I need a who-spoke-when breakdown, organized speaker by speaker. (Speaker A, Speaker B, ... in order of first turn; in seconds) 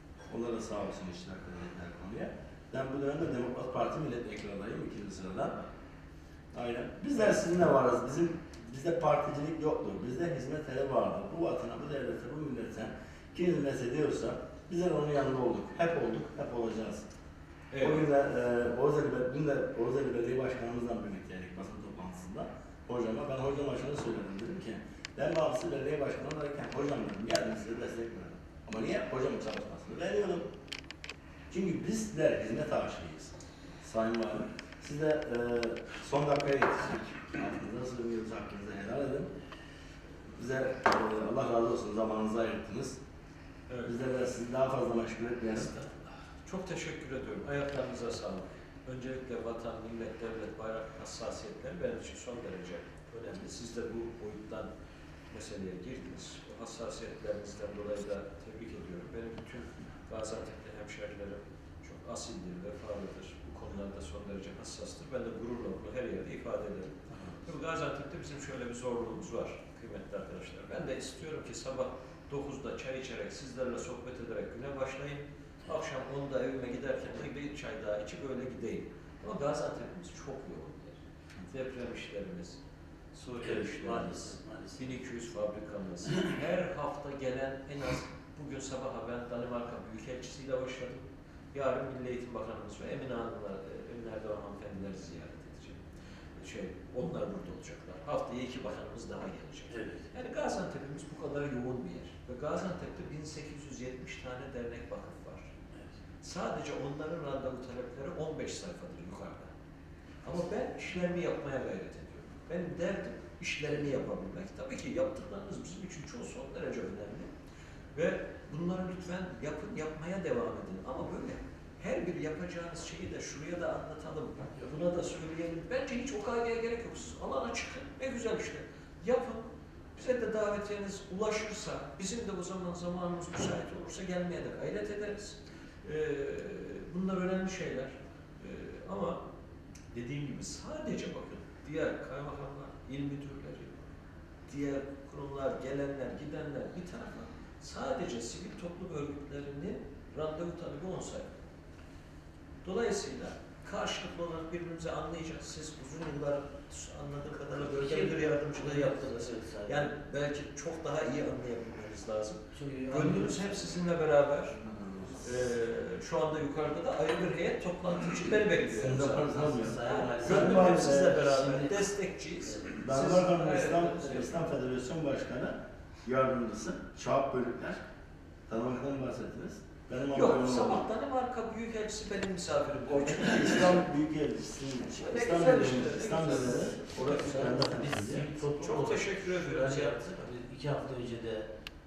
Speaker A: 0.3-5.6, 6.5-17.1, 17.8-30.5, 31.5-39.3, 40.3-43.0, 43.9-45.7, 67.1-67.4, 164.6-165.3, 168.7-171.7, 172.7-177.8, 178.5-180.9, 182.9-188.3
Speaker B: 7.2-7.4, 17.7-18.1, 43.7-43.9, 45.5-54.7, 55.3-82.6, 83.1-105.5, 106.2-109.5, 110.2-117.3, 117.9-139.2, 139.9-143.7, 144.5-151.3, 152.6-164.6, 165.2-174.5, 180.1-183.8, 185.0-190.3
Speaker C: 83.3-85.0, 99.7-100.1, 157.6-159.9, 162.5-163.6, 169.3-171.5, 186.2-191.5